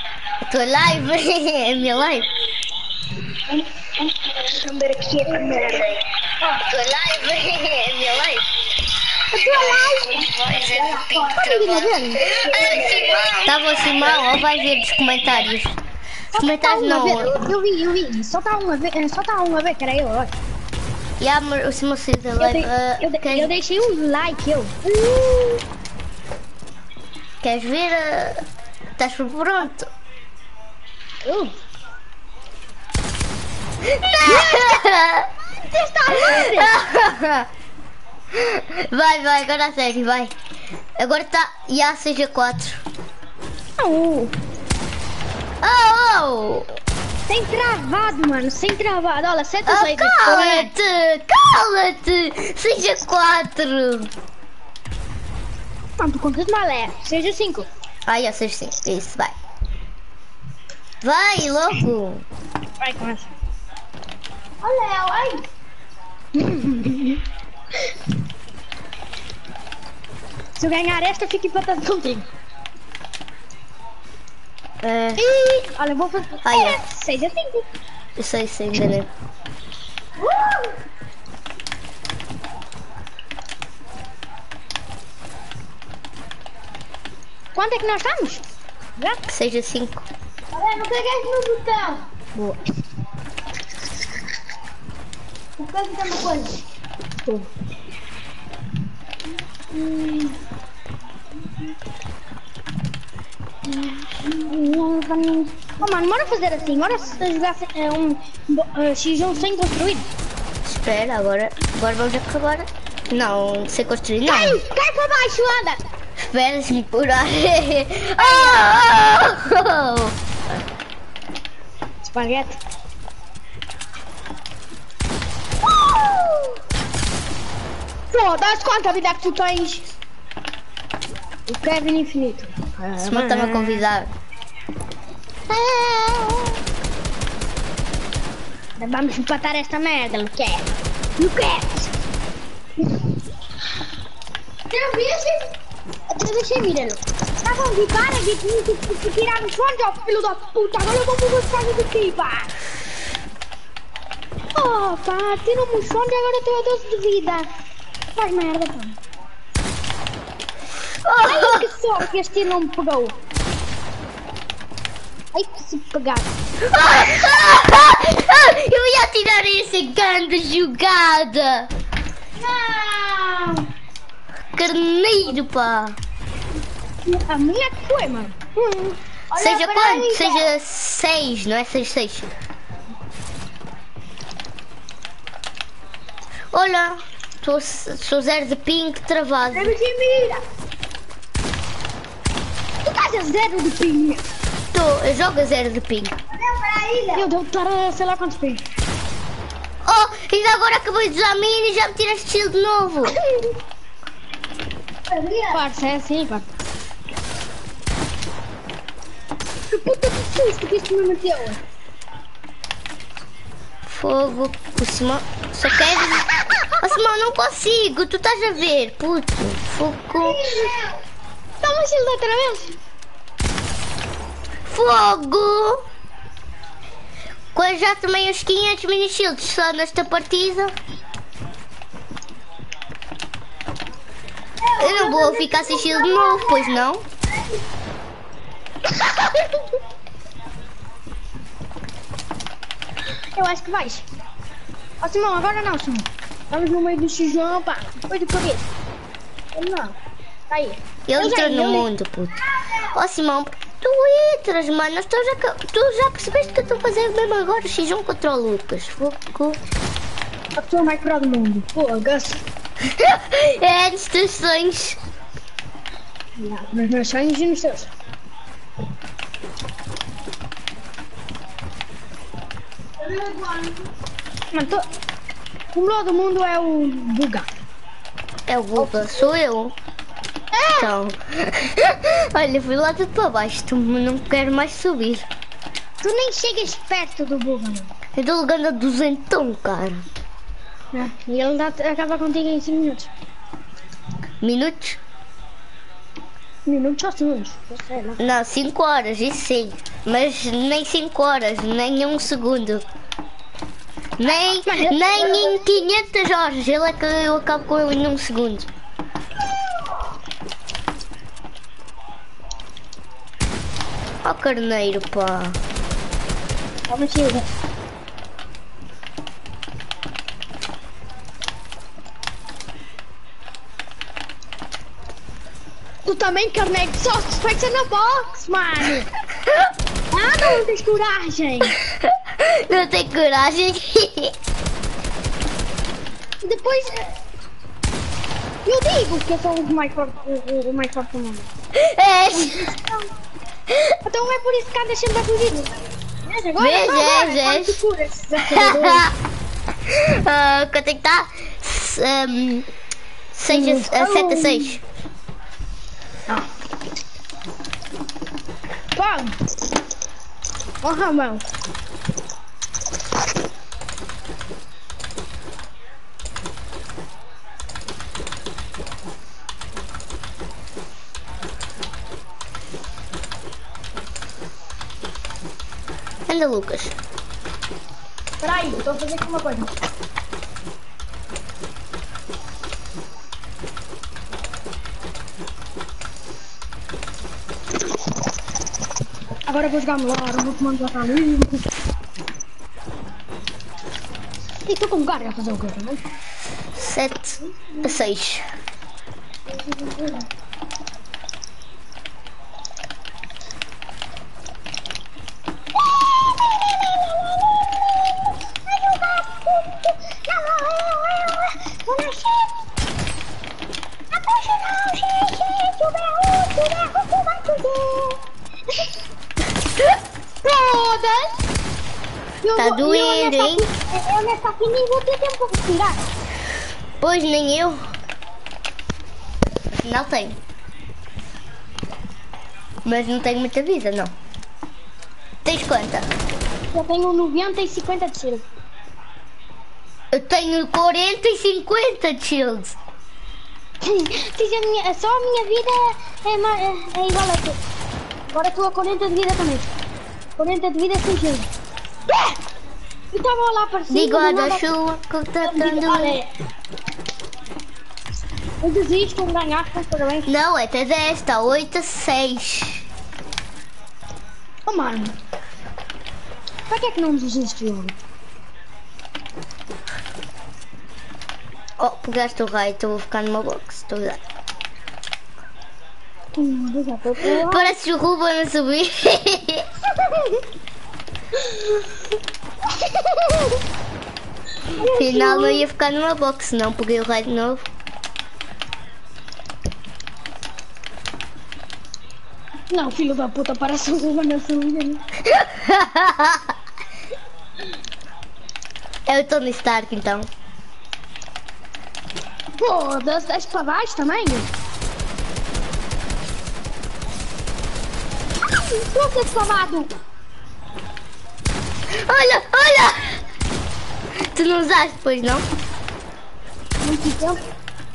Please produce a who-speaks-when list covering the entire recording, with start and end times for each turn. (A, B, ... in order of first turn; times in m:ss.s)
0:00.5-0:02.3 A
0:04.5-0:05.8 B
0:05.6-0:08.5 A
0:09.3-0:10.3 B
0:09.4-0:15.8 A
0:10.8-0:11.3 C
0:10.9-0:13.0 B
0:12.3-0:13.2 C
0:16.3-0:20.3 B
0:16.3-0:17.4 A
0:21.2-0:23.5 A
0:22.4-0:25.5 B
0:27.4-0:28.4 A
0:29.0-0:29.9 A
0:31.2-0:31.5 B
0:33.8-0:35.3 A
0:34.2-0:34.8 B
0:35.7-0:36.7 B
0:36.1-0:37.5 A
0:38.3-0:40.3 A
0:41.0-0:42.8 A
0:43.8-0:44.3 B
0:45.6-0:46.7 A
0:47.3-0:50.7 B
0:49.6-0:54.1 A
0:56.0-0:57.7 B
0:58.1-0:59.3 A
1:01.0-1:02.2 A
1:02.8-1:03.3 B
1:04.6-1:05.4 C
1:06.3-1:07.2 B
1:10.6-1:12.3 B
1:14.8-1:15.2 A
1:15.2-1:17.6 B
1:16.4-1:16.8 A
1:18.2-1:19.1 A
1:27.6-1:28.4 B
1:29.3-1:30.0 A
1:30.5-1:32.0 C
1:35.6-1:36.6 C
1:44.4-1:50.1 B
1:50.6-1:54.6 A
1:54.2-1:55.8 B
1:56.2-2:00.2 A
1:58.2-1:58.6 B
2:02.0-2:02.6 B
2:08.1-2:09.9 B
2:11.5-2:13.8 B
2:13.0-2:14.1 A
2:15.5-2:16.6 B
2:18.8-2:20.7 B
2:21.2-2:21.9 B
2:24.7-2:25.5 C
2:26.1-2:32.5 B
2:34.5-2:37.5 B
2:38.2-2:39.0 B
2:41.0-2:41.7 A
2:41.2-2:43.2 B
2:45.3-2:46.3 B
2:46.6-2:51.7 A
2:52.4-2:53.6 C
2:54.5-2:56.0 A
2:57.0-2:59.0 B
2:59.3-3:00.5 C
2:59.3-3:02.3 A
3:06.5-3:09.8 A
3:09.5-3:10.4 B
3:12.8-3:14.2 B
3:14.7-3:16.1 A
3:16.3-3:17.3 C
3:17.1-3:18.6 B
3:19.8-3:23.2 A
3:25.1-3:25.6 C
3:25.5-3:26.4 B
3:29.7-3:31.6 B
3:33.9-3:36.3 A
3:36.8-3:40.5 A
3:40.2-3:40.9 C
3:41.6-3:42.8 B
3:44.7-3:45.8 A
3:47.5-3:50.7 A
3:54.6-3:56.7 C
3:54.8-3:57.0 A
4:03.3-4:04.0 B
4:05.0-4:08.6 B
4:09.5-4:09.9 B
4:10.5-4:11.9 B
4:11.1-4:12.4 A
4:12.9-4:19.6 A
4:20.6-4:22.4 B
4:22.8-4:25.0 A
4:26.4-4:27.9 B
4:33.0-4:33.8 C
4:34.5-4:34.8 B
4:35.7-4:37.5 B
4:38.5-4:39.7 A
4:38.8-4:39.2 B
4:40.5-4:40.9 B
4:40.8-4:45.3 A
4:46.0-4:47.9 B
4:48.2-4:50.0 A
4:50.9-4:53.1 B
4:54.4-4:55.0 A
4:56.6-4:58.2 B
4:58.2-5:02.8 A
5:04.2-5:08.7 A
5:04.6-5:05.5 B
5:14.2-5:15.6 A
5:16.9-5:17.4 B
5:26.0-5:29.1 B
5:30.1-5:31.8 B
5:31.8-5:34.3 A
5:36.4-5:37.1 B
5:38.6-5:41.5 B
5:41.7-5:42.7 A
5:42.3-5:43.1 B
5:44.0-5:49.1 B
5:46.6-5:47.8 A
5:48.4-5:49.1 A
5:49.8-5:52.7 A
5:53.3-5:54.8 A
5:53.5-5:54.7 B
5:58.9-5:59.4 B
6:00.8-6:01.4 B
6:16.3-6:17.0 A
6:18.4-6:19.7 B
6:29.5-6:31.6 B
6:34.6-6:36.0 B
6:36.7-6:38.4 A
6:39.5-6:40.2 B
6:45.9-6:47.7 B
6:48.6-6:52.5 B
6:54.1-6:58.2 B
7:00.4-7:01.3 B
7:02.4-7:06.0 B
7:02.6-7:03.6 A
7:07.0-7:07.8 A
7:09.7-7:10.4 A
7:12.8-7:14.1 A
7:15.4-7:16.1 A
7:16.7-7:18.4 B
7:20.1-7:22.8 A
7:23.8-7:27.6 B
7:28.3-7:29.7 B
7:30.4-7:31.5 B
7:33.1-7:34.6 B
7:33.9-7:36.2 A
7:35.4-7:36.3 B
7:38.6-7:40.3 B
7:40.2-7:42.8 A
7:44.7-7:45.1 B
7:46.7-7:47.9 B
7:51.8-7:54.2 A
7:56.4-7:57.7 B
7:57.2-7:59.7 A
8:03.0-8:03.4 B
8:04.7-8:05.6 B
8:04.8-8:07.6 A
8:12.7-8:15.0 B
8:15.2-8:16.5 A
8:19.0-8:20.3 A
8:22.6-8:24.5 B
8:28.5-8:29.9 B
8:31.9-8:33.2 A
8:34.2-8:35.4 A
8:36.8-8:37.4 B